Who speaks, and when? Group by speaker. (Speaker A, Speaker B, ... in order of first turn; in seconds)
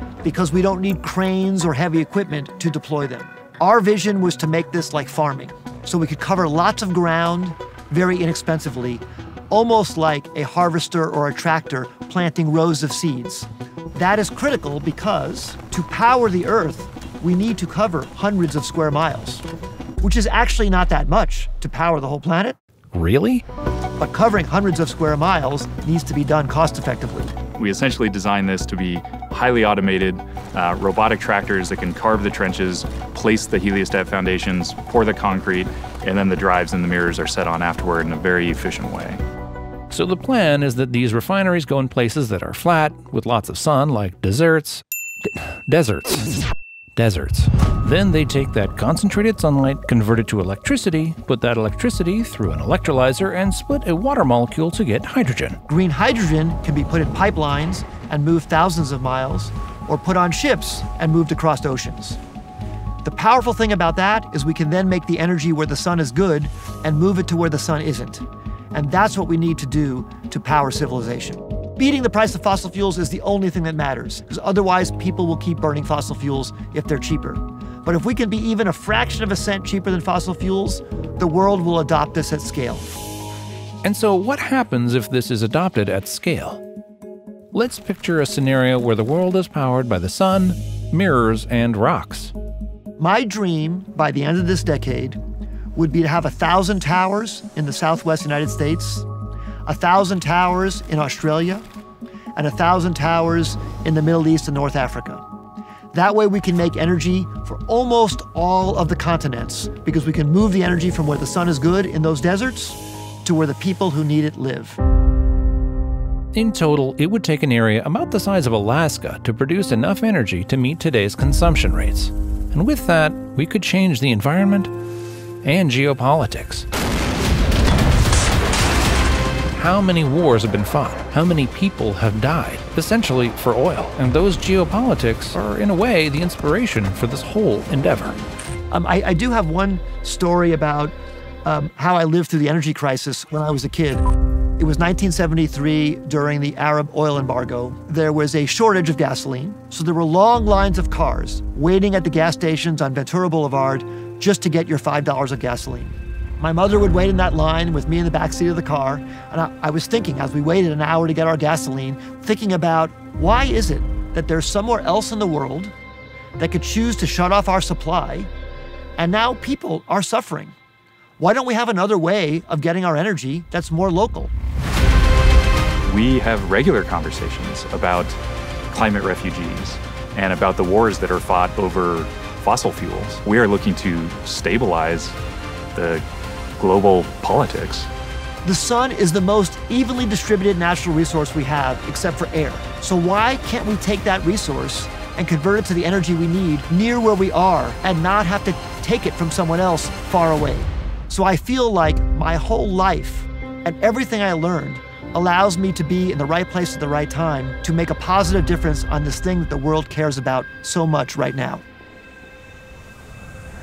Speaker A: 0.2-19.4, 20.0-22.6, 24.0-27.3, 55.7-62.2, 63.0-82.9, 93.0-95.2, 95.8-99.1, 99.7-101.6, 102.3-105.2, 105.9-114.8, 138.7-140.9, 141.4-144.0, 144.6-165.7, 166.4-168.3, 169.0-170.5, 171.2-174.3, 188.4-211.6
Speaker B: 22.9-23.4, 39.9-46.3, 47.0-55.6, 83.8-86.6, 87.5-92.3, 116.3-124.7, 125.4-126.7, 129.5-138.2
Speaker C: 27.6-39.2, 175.9-178.2, 178.7-185.2, 185.7-186.0, 186.6-187.9